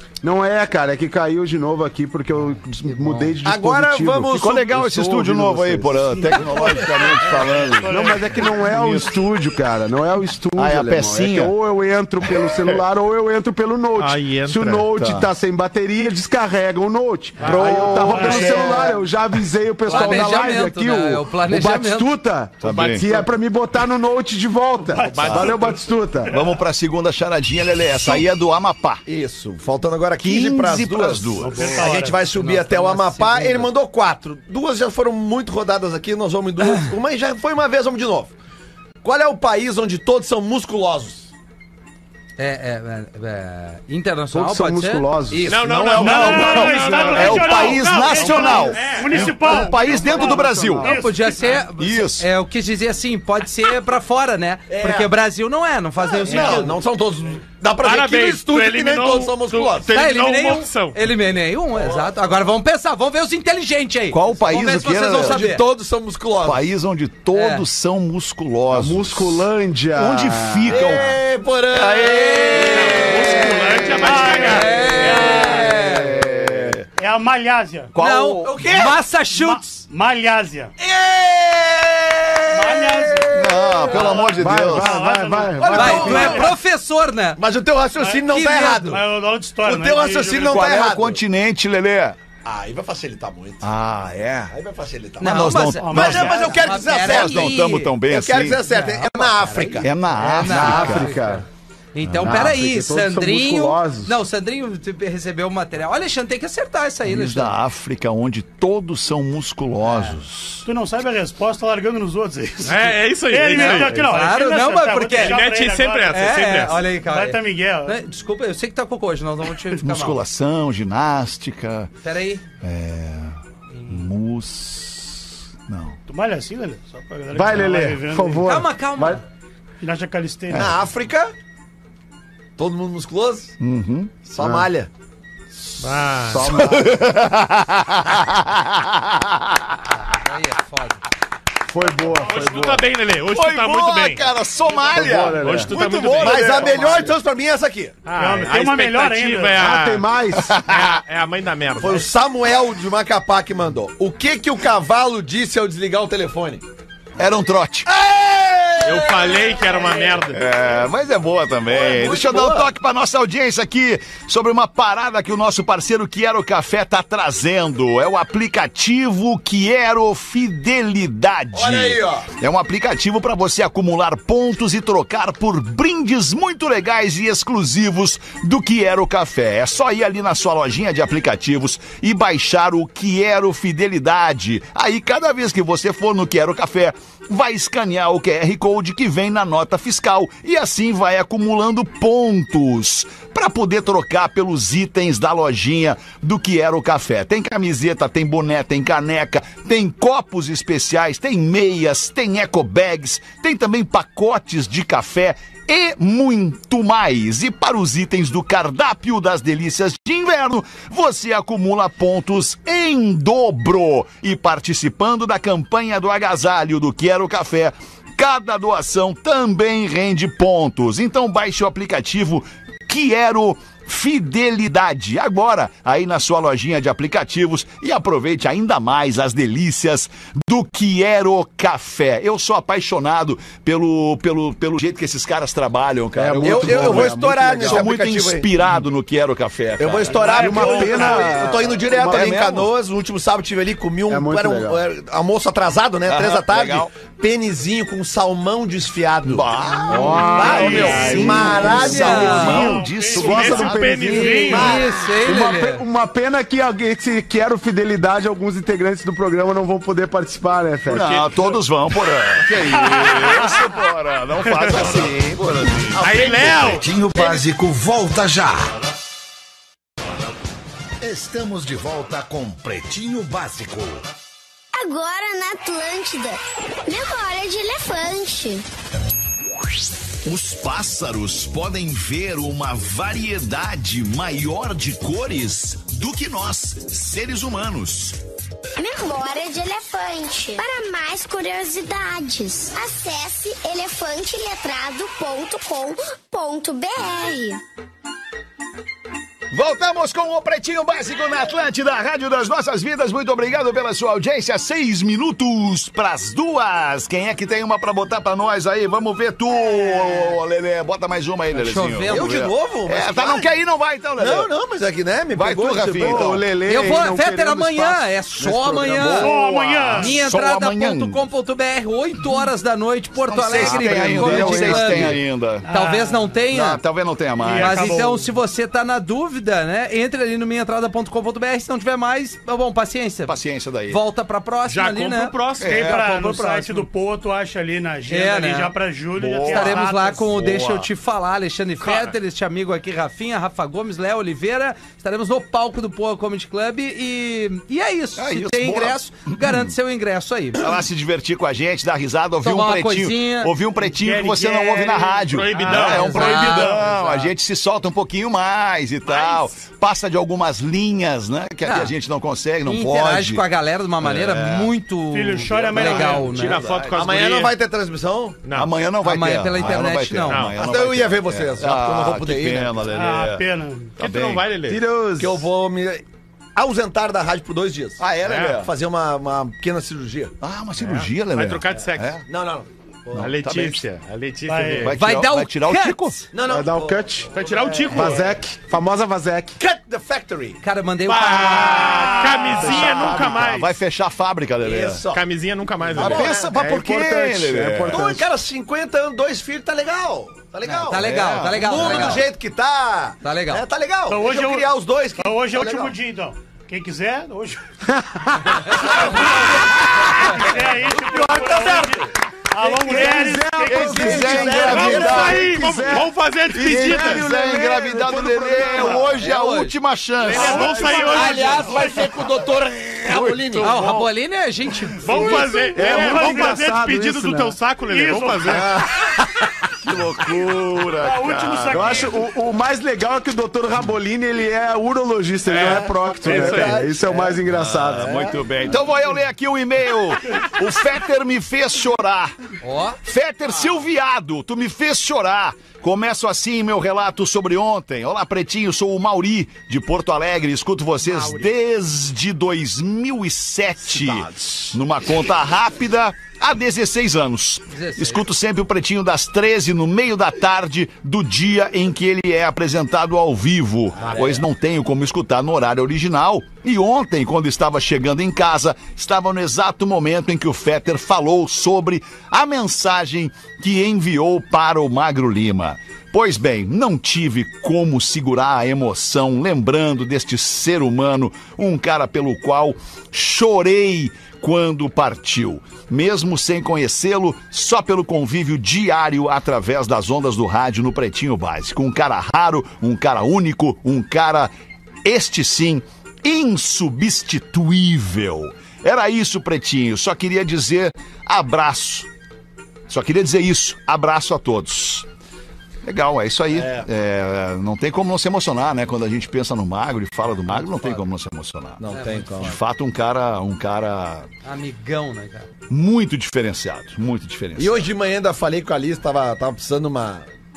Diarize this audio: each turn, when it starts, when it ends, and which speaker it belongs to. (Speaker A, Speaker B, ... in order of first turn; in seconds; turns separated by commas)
Speaker A: 0.2-6.2, Speaker B: 2.9-3.3, Speaker C: 3.4-4.7, Speaker B: 4.3-9.2, Speaker D: 6.1-8.6, Speaker A: 7.8-26.3, Speaker B: 10.6-11.5, Speaker E: 13.9-14.9, Speaker B: 14.9-15.3, Speaker E: 17.4-18.5, Speaker B: 17.4-18.7, Speaker D: 17.6-18.8, Speaker F: 19.9-22.1, Speaker B: 22.6-23.1, Speaker E: 22.6-23.3, Speaker D: 24.8-25.8, Speaker E: 25.1-25.8, Speaker B: 26.3-29.0, Speaker D: 26.3-26.6, Speaker C: 29.1-38.3, Speaker B: 30.2-31.8, Speaker D: 31.4-32.3, Speaker F: 31.9-33.7, Speaker C: 39.0-41.3, Speaker F: 42.4-45.9, Speaker A: 44.3-45.5, Speaker E: 45.5-49.4, Speaker B: 45.9-50.9, Speaker D: 46.0-51.7, Speaker C: 48.1-48.6, Speaker A: 49.5-51.0, Speaker F: 50.8-56.8, Speaker B: 51.7-52.3, Speaker C: 54.7-55.1, Speaker C: 56.1-59.9, Speaker E: 57.8-61.0, Speaker F: 59.9-65.6, Speaker C: 61.7-62.1, Speaker B: 64.1-65.4, Speaker C: 65.2-66.7, Speaker B: 66.4-69.4, Speaker F: 67.3-67.6, Speaker A: 68.7-70.9, Speaker B: 69.9-71.2, Speaker C: 70.7-76.4, Speaker F: 71.7-76.1, Speaker E: 72.5-74.7, Speaker D: 73.0-75.9, Speaker B: 75.8-76.9, Speaker D: 77.0-77.9, Speaker B: 77.9-78.6, Speaker F: 78.0-79.8, Speaker C: 78.4-79.0, Speaker D: 79.3-80.7, Speaker C: 80.8-84.4, Speaker D: 82.5-86.5, Speaker B: 83.3-85.0, Speaker A: 84.3-86.5, Speaker C: 85.6-86.5, Speaker F: 85.7-87.4, Speaker C: 87.4-89.0, Speaker D: 88.0-90.6, Speaker F: 88.3-88.7, Speaker C: 89.6-91.2, Speaker B: 90.4-92.2, Speaker C: 92.4-93.7, Speaker B: 93.6-94.5, Speaker C: 94.5-99.9, Speaker F: 95.2-97.9, Speaker B: 95.2-98.6, Speaker D: 95.8-96.7, Speaker F: 98.7-107.6, Speaker B: 99.8-101.2, Speaker A: 100.4-101.4, Speaker B: 102.0-102.5, Speaker A: 102.2-104.2, Speaker B: 107.0-110.6, Speaker F: 109.9-110.1, Speaker D: 110.6-116.2, Speaker E: 112.6-114.0, Speaker F: 113.5-115.4, Speaker E: 115.2-116.8, Speaker F: 116.1-120.2, Speaker D: 116.9-118.0, Speaker B: 119.7-121.9, Speaker F: 122.0-122.4, Speaker B: 122.6-126.0, Speaker D: 126.1-128.5, Speaker A: 127.3-129.2, Speaker F: 128.4-129.2, Speaker D: 129.8-130.8, Speaker C: 130.5-131.3, Speaker C: 132.6-133.5, Speaker B: 133.6-134.1, Speaker C: 134.2-134.9, Speaker A: 134.4-134.7, Speaker E: 135.8-136.6, Speaker A: 136.3-137.0, Speaker B: 136.4-140.0, Speaker F: 140.1-141.0, Speaker A: 141.7-142.9, Speaker E: 142.1-144.3, Speaker B: 143.3-147.2, Speaker A: 144.9-145.7, Speaker E: 145.0-147.1, Speaker C: 146.2-148.0, Speaker E: 148.1-150.1, Speaker D: 148.1-149.6, Speaker A: 149.5-150.5, Speaker B: 150.3-151.0, Speaker E: 150.7-152.0, Speaker C: 151.8-156.6, Speaker B: 157.2-157.9, Speaker C: 157.9-160.2, Speaker E: 158.8-160.4, Speaker B: 160.3-241.6, Speaker C: 161.7-162.7, Speaker C: 171.5-172.3, Speaker A: 236.1-237.9, Speaker C: 236.4-238.5, Speaker C: 239.8-252.7, Speaker D: 240.1-241.4, Speaker A: 240.4-242.4, Speaker B: 242.1-242.7, Speaker A: 244.1-244.8, Speaker B: 246.1-246.9, Speaker B: 249.2-254.1, Speaker A: 249.9-261.3, Speaker F: 250.1-252.6, Speaker D: 250.4-254.8, Speaker E: 250.7-251.6, Speaker E: 253.1-254.9, Speaker F: 254.1-255.8, Speaker C: 254.5-254.9, Speaker B: 260.9-266.8, Speaker D: 262.6-263.7, Speaker G: 265.6-268.7, Speaker E: 265.9-267.4, Speaker G: 271.0-274.0, Speaker H: 274.8-278.6, Speaker B: 280.2-288.2, Speaker H: 288.8-297.6, Speaker B: 299.5-314.5, Speaker F: 311.5-312.3, Speaker C: 312.1-313.5, Speaker C: 314.1-316.4, Speaker B: 315.3-316.4, Speaker A: 316.0-319.1, Speaker F: 316.6-319.4, Speaker B: 318.9-321.3, Speaker D: 319.1-320.2, Speaker F: 319.9-326.8, Speaker B: 323.2-325.6, Speaker A: 323.6-325.2, Speaker D: 325.6-326.4, Speaker B: 326.5-328.0, Speaker D: 327.4-328.3, Speaker F: 327.5-335.3, Speaker B: 333.2-334.0, Speaker E: 334.7-336.0, Speaker B: 335.6-336.1, Speaker D: 335.6-340.3, Speaker F: 336.0-336.8, Speaker F: 338.1-338.7, Speaker B: 339.1-340.9, Speaker F: 339.4-350.7, Speaker E: 341.8-342.1, Speaker B: 348.1-349.7, Speaker B: 350.6-363.4, Speaker F: 352.4-353.5, Speaker D: 353.8-357.2, Speaker E: 355.2-356.2, Speaker F: 355.7-357.3, Speaker E: 359.1-359.4, Speaker F: 361.6-361.9, Speaker F: 362.6-366.6, Speaker B: 364.0-364.7, Speaker D: 365.1-366.5, Speaker B: 365.7-367.1, Speaker E: 365.7-367.6, Speaker C: 367.0-368.4, Speaker E: 368.4-368.7, Speaker B: 368.5-374.4, Speaker F: 369.0-370.5, Speaker E: 370.3-370.6, Speaker C: 370.6-372.9, Speaker D: 372.9-374.0, Speaker E: 374.0-374.8, Speaker A: 374.6-375.4, Speaker C: 375.2-376.0, Speaker C: 376.5-380.4, Speaker B: 378.0-378.7, Speaker E: 378.2-378.6, Speaker B: 380.4-382.2, Speaker E: 380.8-382.1, Speaker C: 382.3-383.3, Speaker B: 383.1-383.8, Speaker E: 383.1-385.0, Speaker D: 384.5-385.0, Speaker B: 384.8-386.2, Speaker F: 384.9-386.1, Speaker C: 386.3-388.2, Speaker A: 386.4-387.3, Speaker E: 387.3-388.3, Speaker A: 387.9-389.6, Speaker C: 389.6-390.6, Speaker F: 390.6-392.1, Speaker E: 391.1-393.7, Speaker D: 391.5-393.1, Speaker C: 392.0-392.5, Speaker B: 392.5-395.0, Speaker C: 394.6-395.2, Speaker E: 395.1-396.3, Speaker C: 395.9-396.6, Speaker B: 395.9-398.2, Speaker A: 396.5-398.2, Speaker C: 397.9-405.9, Speaker F: 400.6-402.2, Speaker B: 400.9-402.2, Speaker F: 403.2-403.6, Speaker D: 404.1-407.6, Speaker A: 407.9-408.9, Speaker C: 408.7-412.1, Speaker D: 410.2-414.4, Speaker C: 412.6-415.5, Speaker A: 412.8-419.2, Speaker B: 413.6-415.9, Speaker E: 414.5-417.3, Speaker B: 416.5-421.0, Speaker F: 419.2-419.8, Speaker E: 420.2-422.0, Speaker C: 420.3-423.8, Speaker D: 420.4-422.2, Speaker B: 423.1-424.1, Speaker E: 423.1-424.0, Speaker F: 423.6-425.4, Speaker E: 425.0-428.8, Speaker D: 425.1-426.8, Speaker A: 425.7-427.6, Speaker D: 427.9-428.8, Speaker B: 429.7-432.1, Speaker D: 431.0-432.1, Speaker A: 431.7-438.2, Speaker E: 435.5-436.8, Speaker C: 436.2-437.4, Speaker B: 437.5-442.4, Speaker C: 437.9-438.8, Speaker F: 442.6-443.0, Speaker B: 443.0-494.5, Speaker C: 453.8-454.8, Speaker F: 457.7-458.2, Speaker C: 464.0-464.4, Speaker B: 495.0-502.1, Speaker B: 502.9-505.1, Speaker B: 505.8-511.8, Speaker C: 506.5-506.9, Speaker C: 510.7-511.0, Speaker C: 511.8-512.6, Speaker F: 511.9-512.6, Speaker B: 512.4-514.3, Speaker F: 514.4-515.5, Speaker B: 515.7-517.9, Speaker C: 517.5-520.3